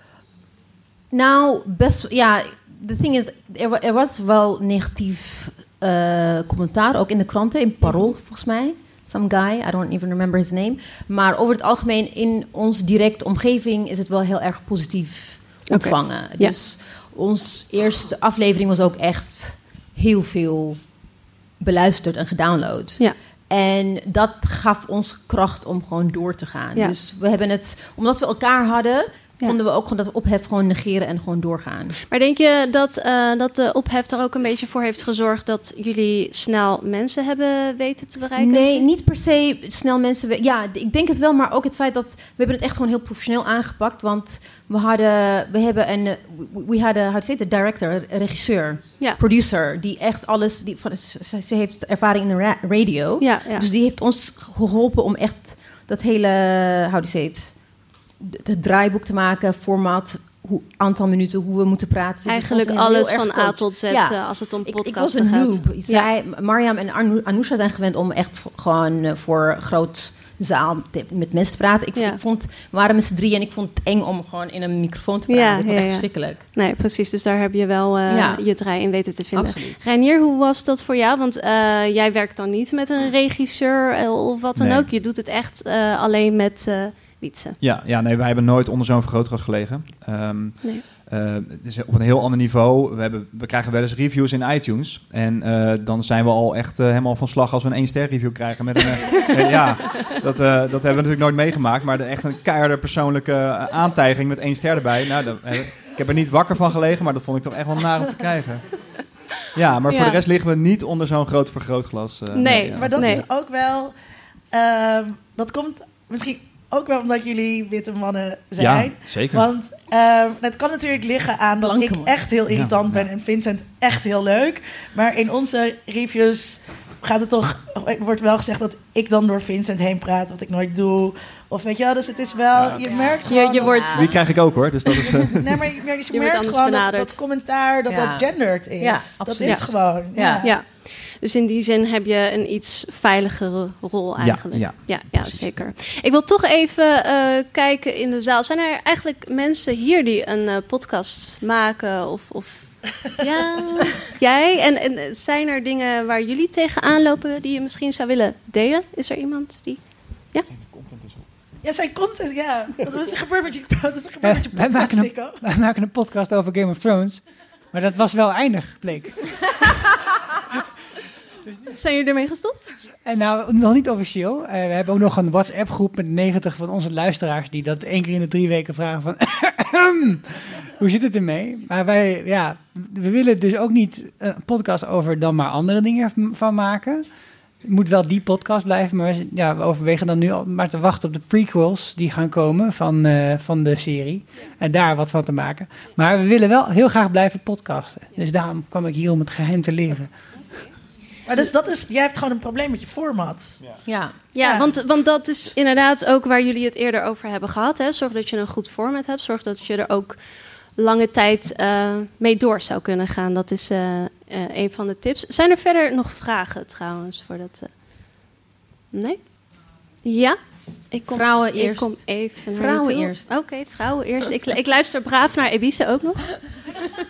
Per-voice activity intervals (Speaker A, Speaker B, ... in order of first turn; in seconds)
Speaker A: 1.1-20.8, 21.6-31.9, 38.4-57.5, 58.2-76.4, 78.1-78.4, 79.3-79.8, 121.6-122.1, 133.1-134.1, 137.9-138.2, 138.8-140.4, 203.8-204.2, 221.1-223.3
Speaker B: 15.7-16.5, 32.1-38.9, 53.2-53.7, 62.2-66.1, 75.3-87.6, 109.9-110.2, 112.3-113.2, 133.2-134.1, 136.1-137.1, 140.4-159.8, 171.7-172.7, 204.3-210.2, 210.8-217.7, 218.9-219.2, 220.0-220.4, 220.9-226.4
Speaker C: 84.6-84.9, 87.6-108.6, 109.5-113.0, 118.6-119.4, 122.5-123.1, 132.5-133.0, 133.9-135.6, 144.2-145.5, 160.5-161.2
Speaker D: 112.5-113.9, 114.5-134.1, 135.0-140.5, 161.6-165.4, 201.2-203.6, 204.4-204.6
Speaker E: 164.2-169.8, 173.0-187.1, 187.6-200.2